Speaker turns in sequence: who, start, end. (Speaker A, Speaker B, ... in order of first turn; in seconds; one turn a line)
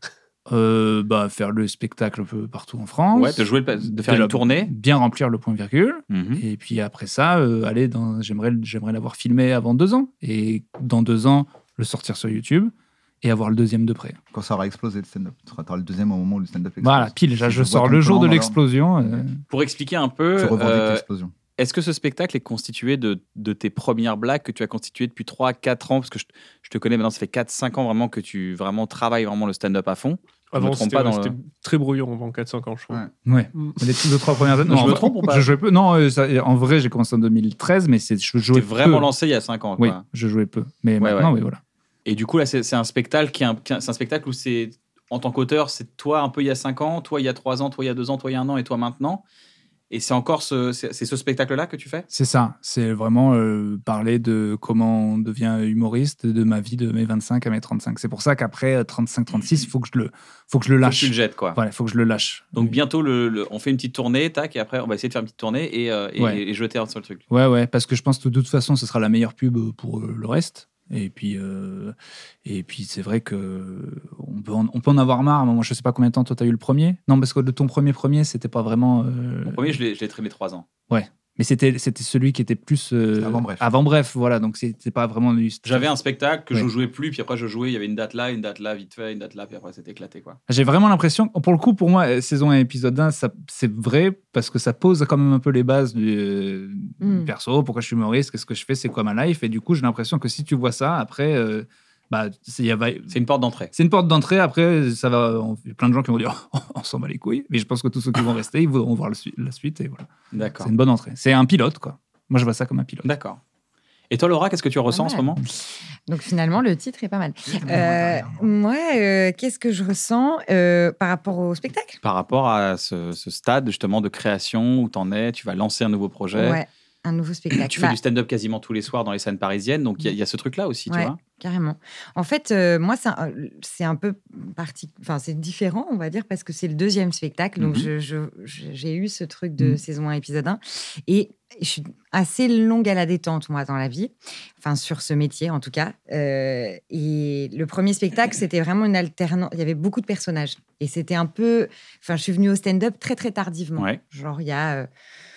Speaker A: 0.5-14.2
Speaker B: 3.1-4.7
Speaker B: 6.1-6.4
Speaker C: 14.3-18.6
Speaker A: 16.8-19.4
Speaker B: 19.5-21.0
Speaker C: 20.3-21.3
Speaker B: 21.6-31.3
Speaker D: 30.5-33.8
Speaker A: 33.2-39.1
Speaker B: 34.7-35.5
Speaker B: 38.5-40.0
Speaker A: 39.8-41.6
Speaker B: 41.0-41.3
Speaker B: 42.0-49.2
Speaker B: 49.9-52.1
Speaker A: 52.1-62.8
Speaker B: 60.8-61.6
Speaker B: 62.5-67.2
Speaker A: 67.3-79.8
Speaker B: 79.4-80.7
Speaker A: 80.9-85.9
Speaker C: 83.1-83.7
Speaker B: 85.6-90.4
Speaker A: 90.5-103.1
Speaker E: 97.0-97.3
Speaker B: 103.1-103.7
Speaker A: 103.7-110.1
Speaker B: 110.3-110.7
Speaker A: 110.6-113.1
Speaker B: 113.0-113.4
Speaker B: 114.1-115.4
Speaker E: 114.9-115.2
Speaker E: 116.1-122.0
Speaker C: 117.4-118.5
Speaker B: 122.0-126.6
Speaker E: 126.3-128.0
Speaker B: 127.5-131.2
Speaker E: 130.9-154.9